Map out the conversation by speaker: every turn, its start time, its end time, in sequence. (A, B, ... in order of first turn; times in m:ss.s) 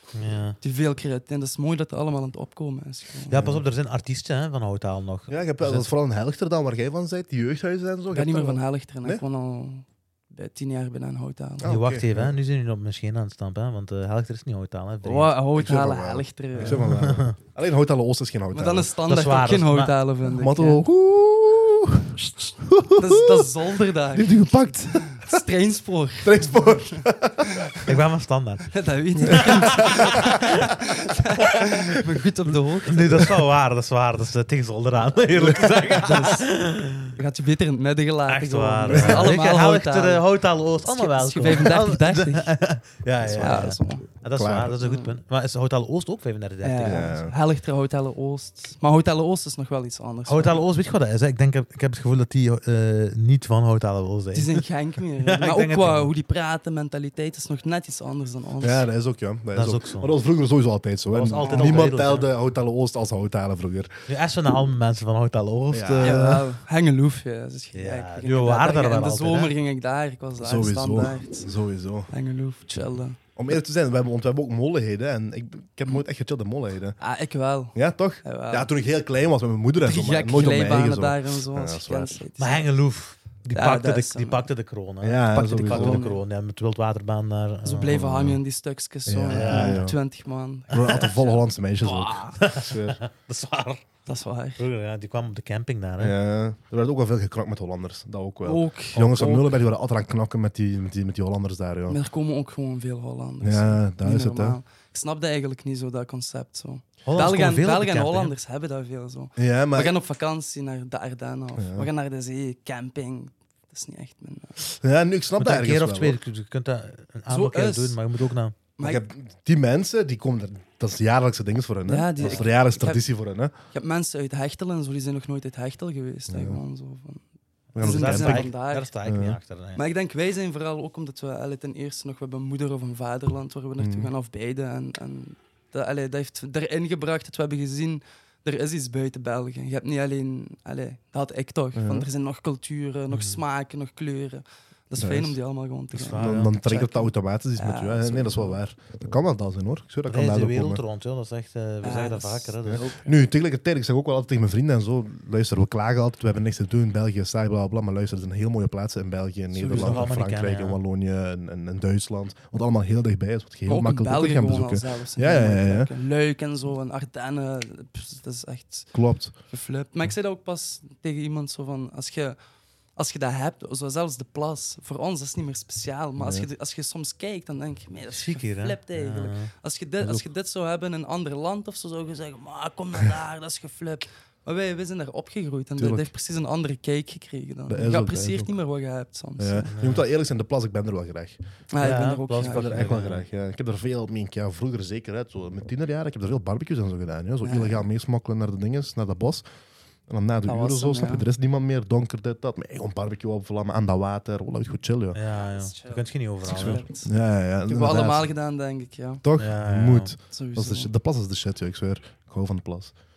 0:00.1-0:00.6 A
0:00.6-0:03.4 B
0:03.3-0:05.9 A
0:03.3-0:03.6 C
0:05.3-0:09.2 C
0:08.1-0:11.8 B
0:11.6-0:12.4 C
0:11.6-0:15.4 A
0:15.0-0:17.0 B
0:15.6-0:18.9 C
0:16.6-0:17.4 A
0:18.5-0:20.8 B
0:19.1-0:19.9 A
0:20.3-0:23.5 C
0:23.0-0:27.0 B
0:24.1-0:25.4 C
0:26.2-0:27.9 C
0:27.9-0:28.7 A
0:28.7-0:33.3 B
0:29.3-0:29.7 A
0:29.3-0:30.7 C
0:32.9-0:37.2 A
0:35.4-0:36.0 C
0:35.9-0:36.6 B
0:37.1-0:40.3 B
0:38.3-0:47.1 A
0:38.9-0:39.3 C
0:40.8-0:42.6 B
0:43.3-0:43.7 C
0:43.3-0:44.1 B
0:44.4-0:44.8 C
0:44.8-0:45.2 B
0:46.6-0:50.6 B
0:46.8-0:47.4 C
0:50.3-0:54.7 A
0:54.3-0:58.9 B
0:55.2-0:56.1 A
0:58.6-1:04.0 C
0:59.5-1:00.2 A
1:01.1-1:02.3 A
1:01.4-1:01.9 B
1:04.1-1:06.4 A
1:05.7-1:06.4 C
1:06.0-1:11.5 B
1:07.7-1:09.6 A
1:10.4-1:12.1 C
1:12.1-1:13.2 B
1:13.4-1:17.0 C
1:17.0-1:18.7 B
1:17.7-1:22.2 C
1:19.8-1:22.7 B
1:22.4-1:28.4 A
1:23.5-1:24.5 B
1:25.0-1:26.0 C
1:25.5-1:26.2 B
1:27.6-1:32.4 B
1:28.0-1:28.4 C
1:29.1-1:30.0 C
1:29.3-1:29.8 A
1:30.7-1:33.0 C
1:32.4-1:33.9 A
1:34.1-1:34.6 B
1:34.6-1:36.1 A
1:36.0-1:42.0 C
1:38.4-1:39.7 B
1:41.9-1:54.6 B
1:43.4-1:44.6 C
1:47.0-1:48.4 A
1:49.4-1:50.0 C
1:51.6-1:51.9 C
1:54.8-1:56.2 C
1:55.4-1:58.6 A
1:57.3-1:58.0 B
1:58.8-1:59.0 B
1:58.8-2:03.5 C
2:01.9-2:03.0 B
2:03.7-2:07.2 B
2:06.3-2:06.6 C
2:07.8-2:08.5 C
2:07.8-2:08.9 B
2:07.8-2:09.8 A
2:09.0-2:09.4 C
2:09.8-2:28.6 B
2:13.8-2:14.1 C
2:21.8-2:22.1 C
2:23.1-2:23.4 A
2:25.0-2:25.4 C
2:25.9-2:26.6 A
2:26.1-2:30.8 C
2:30.1-2:33.1 A
2:31.8-2:33.1 B
2:32.6-2:45.9 C
2:39.5-2:40.1 B
2:39.7-2:40.8 A
2:43.7-2:49.0 B
2:48.9-2:49.3 C
2:49.5-2:52.4 B
2:53.0-3:09.7 B
2:56.2-2:56.5 C
2:58.1-2:59.5 A
3:00.0-3:00.3 C
3:05.8-3:06.1 C
3:07.7-3:08.6 C
3:09.4-3:11.4 C
3:09.7-3:10.1 A
3:11.7-3:12.9 B
3:11.8-3:13.2 A
3:12.5-3:19.4 C
3:17.4-3:17.8 B
3:20.1-3:25.2 C
3:20.5-3:21.3 B
3:25.1-3:26.8 A
3:25.3-3:27.1 B
3:26.5-3:28.3 C
3:27.7-3:29.2 B
3:29.2-3:33.0 C
3:29.4-3:30.1 A
3:30.3-3:30.9 B